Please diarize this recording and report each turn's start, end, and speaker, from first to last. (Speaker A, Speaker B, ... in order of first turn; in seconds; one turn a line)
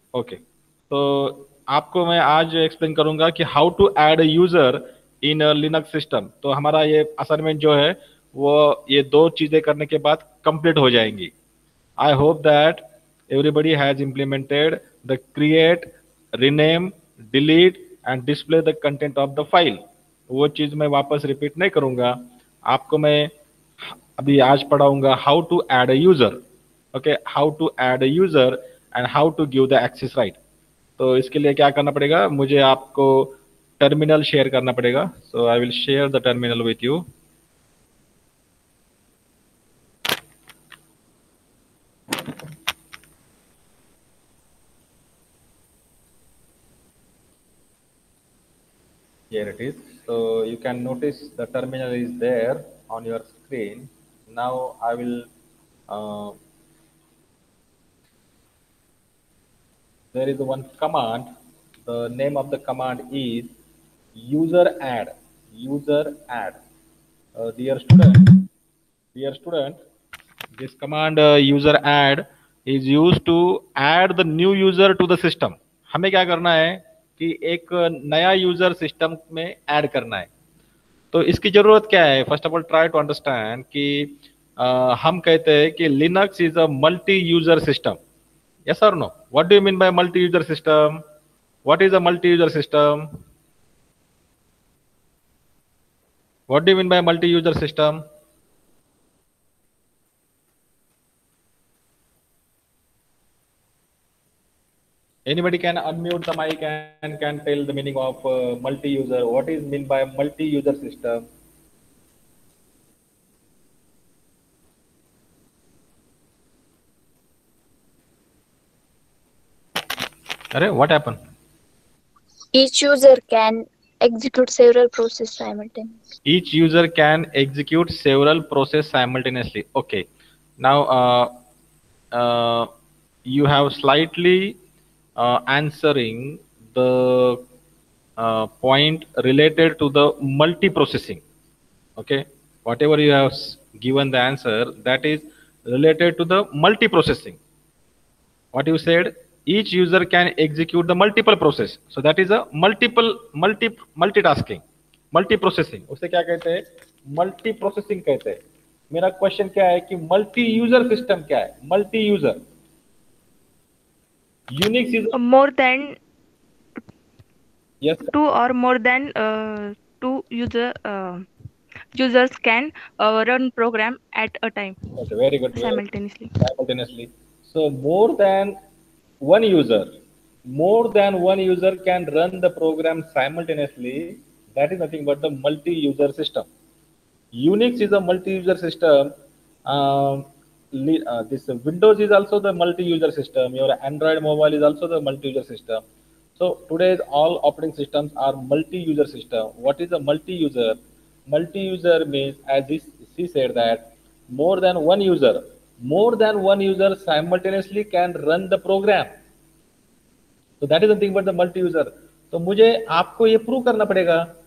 Speaker A: 0.1-11.3
Speaker A: 12.0-23.3
Speaker A: 23.9-26.4
Speaker A: 26.9-30.4
Speaker A: 31.0-37.0
Speaker A: 49.3-55.3
Speaker A: 55.9-56.4
Speaker A: 60.1-61.3
Speaker A: 61.9-63.5
Speaker A: 64.2-66.6
Speaker A: 67.4-68.4
Speaker A: 69.1-69.8
Speaker A: 70.5-80.3
Speaker A: 81.1-88.0
Speaker A: 88.7-91.0
Speaker A: 91.7-93.1
Speaker A: 96.5-98.0
Speaker A: 105.3-111.2
Speaker A: 120.5-121.2
Speaker B: 122.5-126.0
Speaker A: 126.3-130.1
Speaker A: 130.6-131.3
Speaker A: 132.1-132.7
Speaker A: 133.3-134.6
Speaker A: 135.2-137.4
Speaker A: 138.2-141.2
Speaker A: 142.0-147.4
Speaker A: 148.5-162.4
Speaker A: 164.5-165.2
Speaker C: 165.1-166.0
Speaker A: 167.8-168.1
Speaker C: 168.1-171.3
Speaker C: 171.9-174.9
Speaker A: 174.9-175.8
Speaker C: 175.5-176.3
Speaker A: 176.4-178.6
Speaker A: 179.2-179.9
Speaker A: 180.5-186.5
Speaker A: 187.3-189.1
Speaker A: 189.7-195.8
Speaker A: 196.4-209.1
Speaker A: 210.6-214.3